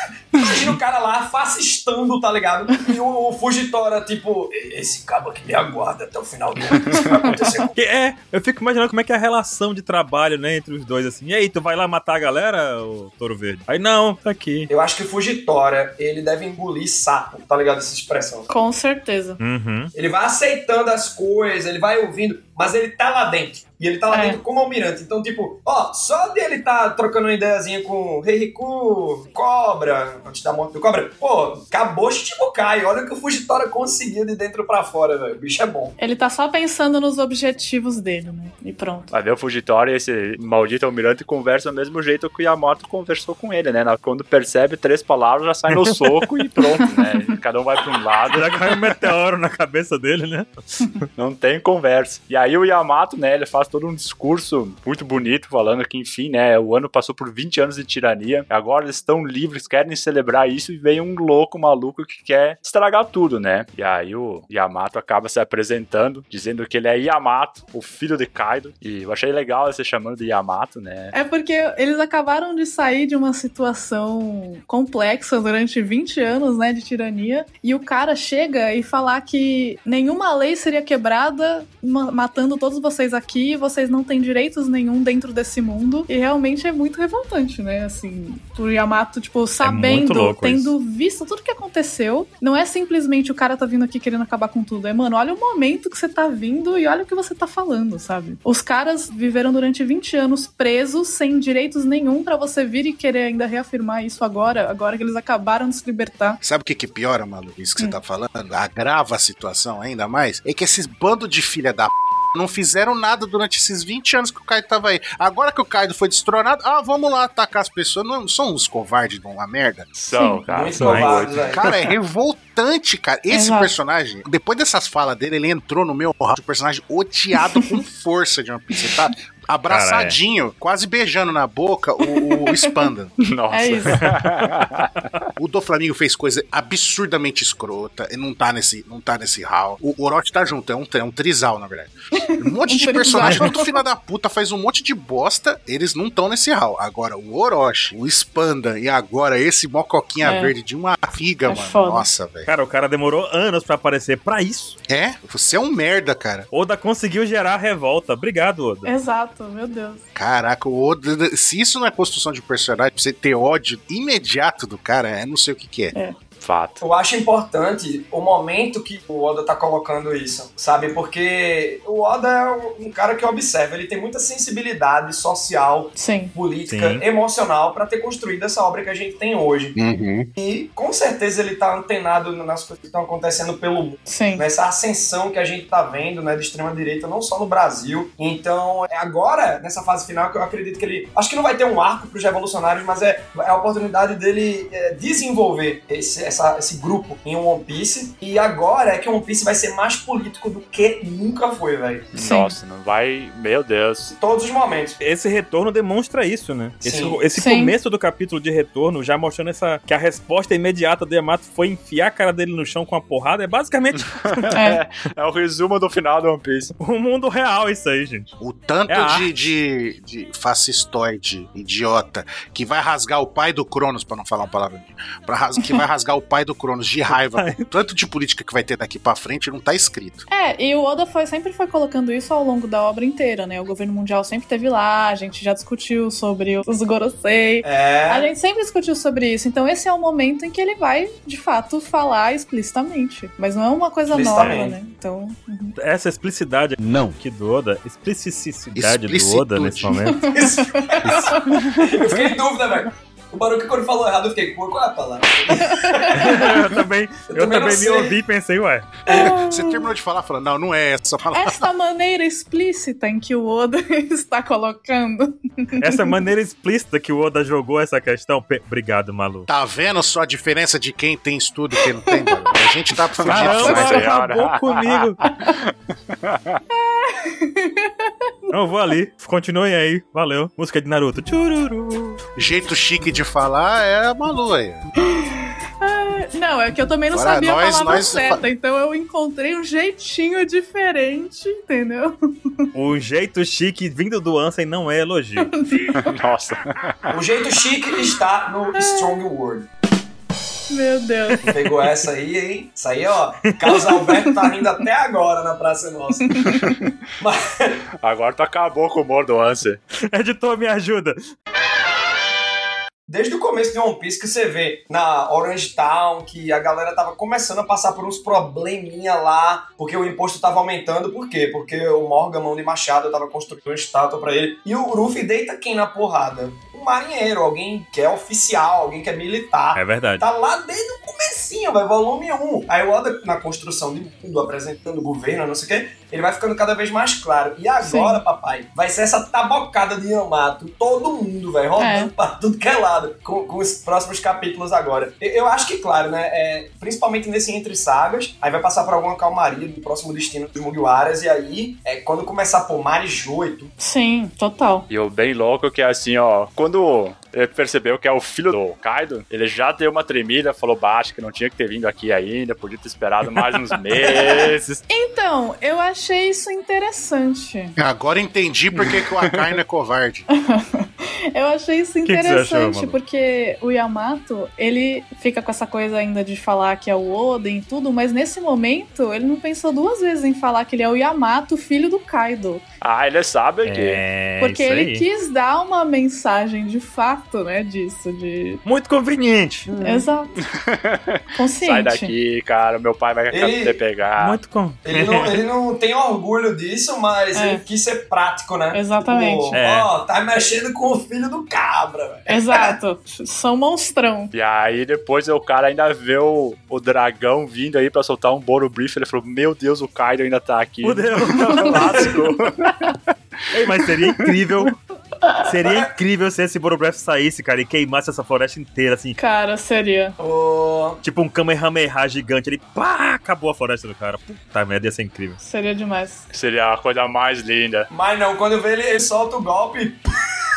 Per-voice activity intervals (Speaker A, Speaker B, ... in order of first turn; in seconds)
Speaker A: 0.3-7.7, 14.7-18.5, 19.9-36.0, 120.5-121.6, 166.8-179.8, 180.3-202.1, 204.2-205.0, 206.8-207.2, 237.6-238.3, 244.1-244.8, 250.3-256.7, 257.3-258.1, 297.1-299.7, 301.4-306.7, 307.2-307.8, 313.1-353.7, 364.1-364.4, 393.3-393.8, 394.8-402.7, 415.6-415.9, 420.2-421.0, 427.9-430.1
Speaker B: 7.7-14.7, 19.4-19.9, 45.7-46.1, 48.3-51.0, 89.6-90.7, 120.8-121.3, 129.7-130.2, 152.4-154.8, 156.5-158.9, 176.7-177.0, 205.0-214.6, 216.8-218.3, 218.9-219.3, 227.1-227.7, 245.8-250.3, 251.0-251.6, 256.1-259.0, 265.8-269.5, 273.2-275.2, 278.5-282.2, 292.7-295.5, 303.4-303.9, 310.1-311.2, 329.7-330.2, 372.1-373.0, 383.6-385.1, 388.6-389.7, 394.2-395.4, 399.5-399.9, 410.8-412.1, 413.5-414.8, 415.4-419.2, 421.0-425.4
Speaker C: 18.5-19.4, 24.1-24.4, 36.0-39.1, 71.1-106.4, 120.1-120.4, 123.3-123.7, 132.0-132.9, 133.5-134.1, 142.2-143.8, 150.2-150.5, 151.4-152.1, 158.8-160.1, 175.9-176.3, 184.1-184.4, 202.2-202.5, 207.3-207.7, 214.5-214.8, 230.3-245.8, 250.0-251.6, 255.5-256.5, 259.1-259.9, 261.3-266.1, 271.8-272.5, 275.2-275.5, 276.7-278.9, 285.1-292.7, 295.4-296.2, 298.8-299.2, 300.7-301.6, 303.7-304.1, 306.2-306.7, 337.8-338.2, 341.8-342.1, 353.8-354.9, 364.9-367.8, 370.4-382.6, 384.4-388.6, 389.8-390.4, 391.3-392.1, 397.3-397.6, 398.7-399.6, 402.3-404.3, 411.5-411.8, 415.2-415.5, 419.2-420.2, 425.4-426.3
Speaker D: 39.1-48.6, 51.2-71.1, 119.9-121.5, 133.2-134.9, 166.4-166.8, 202.1-204.2, 214.0-216.7, 273.2-276.6, 296.0-297.1, 308.0-309.8, 354.9-364.8, 368.8-369.6, 382.8-384.0, 390.4-394.4, 404.3-412.9, 413.9-414.3, 426.3-427.9
Speaker E: 106.4-119.9, 121.5-133.1, 135.4-152.5, 154.9-156.5, 160.1-165.9, 179.8-180.3, 218.4-230.2, 246.8-247.2, 248.7-250.0, 259.2-261.7, 269.5-274.1, 282.4-284.9, 287.1-288.4, 367.8-370.3